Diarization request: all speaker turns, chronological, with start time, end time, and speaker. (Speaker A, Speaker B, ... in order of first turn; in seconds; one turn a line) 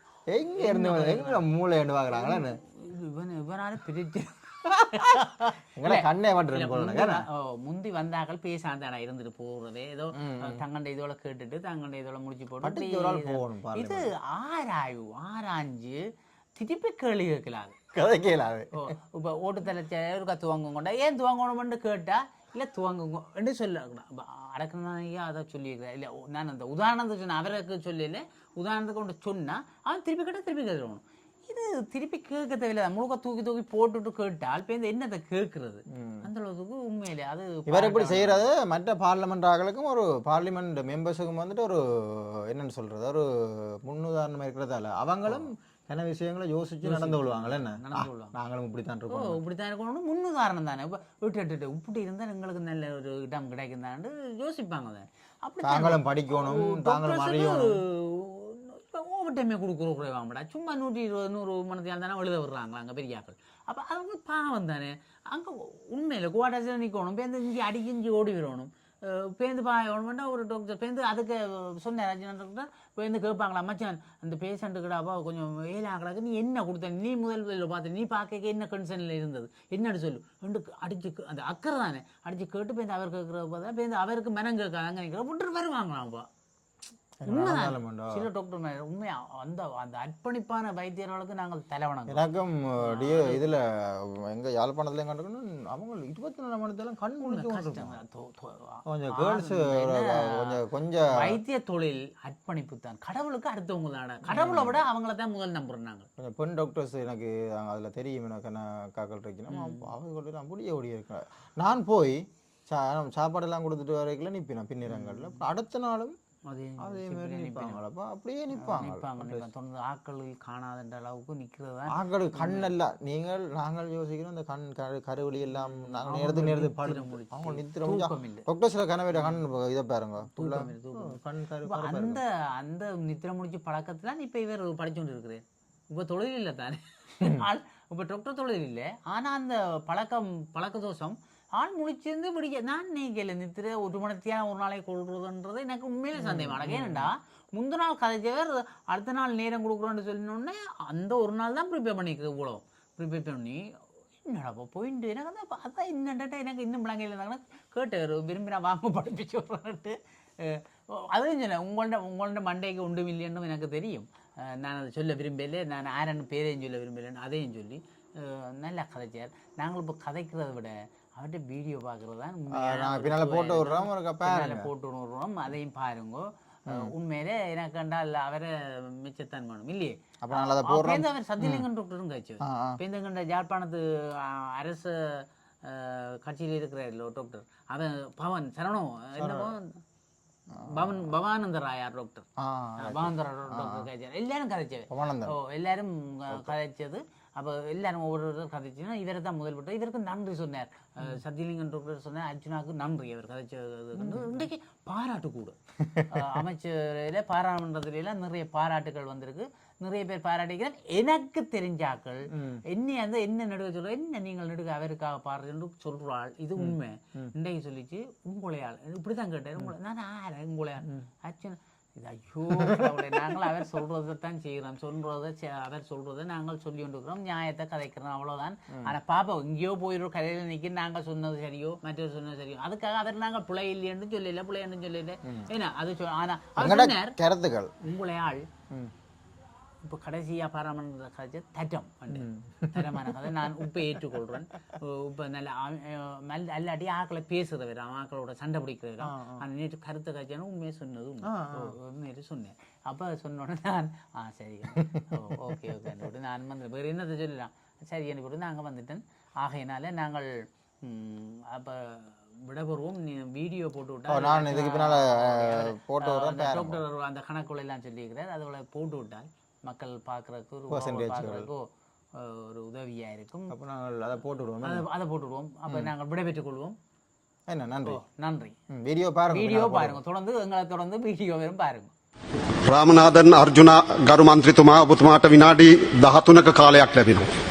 Speaker A: 0.3-2.6
Speaker B: 0.6-1.4
Speaker B: 2.1-17.8
Speaker A: 5.8-7.2
Speaker A: 10.1-10.6
Speaker A: 12.6-14.1
Speaker A: 17.9-18.7
Speaker B: 18.7-38.4
Speaker A: 35.9-36.3
Speaker A: 37.7-49.4
Speaker B: 46.8-48.3
Speaker B: 49.1-86.3
Speaker A: 55.6-57.8
Speaker A: 87.2-88.2
Speaker B: 87.3-92.2
Speaker A: 92.1-98.0
Speaker B: 92.8-93.5
Speaker B: 97.2-100.6
Speaker A: 98.9-101.4
Speaker B: 101.1-106.1
Speaker A: 104.3-104.8
Speaker A: 106.2-116.2
Speaker B: 109.5-109.9
Speaker B: 114.9-115.4
Speaker B: 116.5-117.8
Speaker A: 116.8-119.5
Speaker B: 118.6-122.7
Speaker A: 121.9-132.2
Speaker B: 125.6-128.5
Speaker B: 130.3-153.7
Speaker A: 146.2-147.1
Speaker B: 154.2-189.8
Speaker A: 172.5-174.7
Speaker A: 180.2-181.6
Speaker A: 182.4-182.8
Speaker A: 189.2-189.5
Speaker A: 190.5-190.9
Speaker B: 190.6-192.2
Speaker A: 192.4-193.9
Speaker B: 192.8-205.6
Speaker A: 194.9-195.4
Speaker A: 204.0-204.4
Speaker A: 205.8-206.1
Speaker B: 206.1-237.2
Speaker A: 212.3-212.6
Speaker A: 216.6-217.3
Speaker A: 222.5-222.9
Speaker A: 236.6-237.7
Speaker B: 237.8-238.5
Speaker B: 239.8-273.5
Speaker A: 242.1-243.1
Speaker A: 249.0-249.4
Speaker A: 251.2-251.7
Speaker A: 254.8-255.7
Speaker A: 264.1-266.8
Speaker A: 270.7-271.5
Speaker A: 273.5-274.9
Speaker B: 274.6-276.8
Speaker A: 277.5-278.0
Speaker B: 277.9-278.6
Speaker A: 278.7-280.0
Speaker B: 279.3-281.9
Speaker C: 282.6-287.3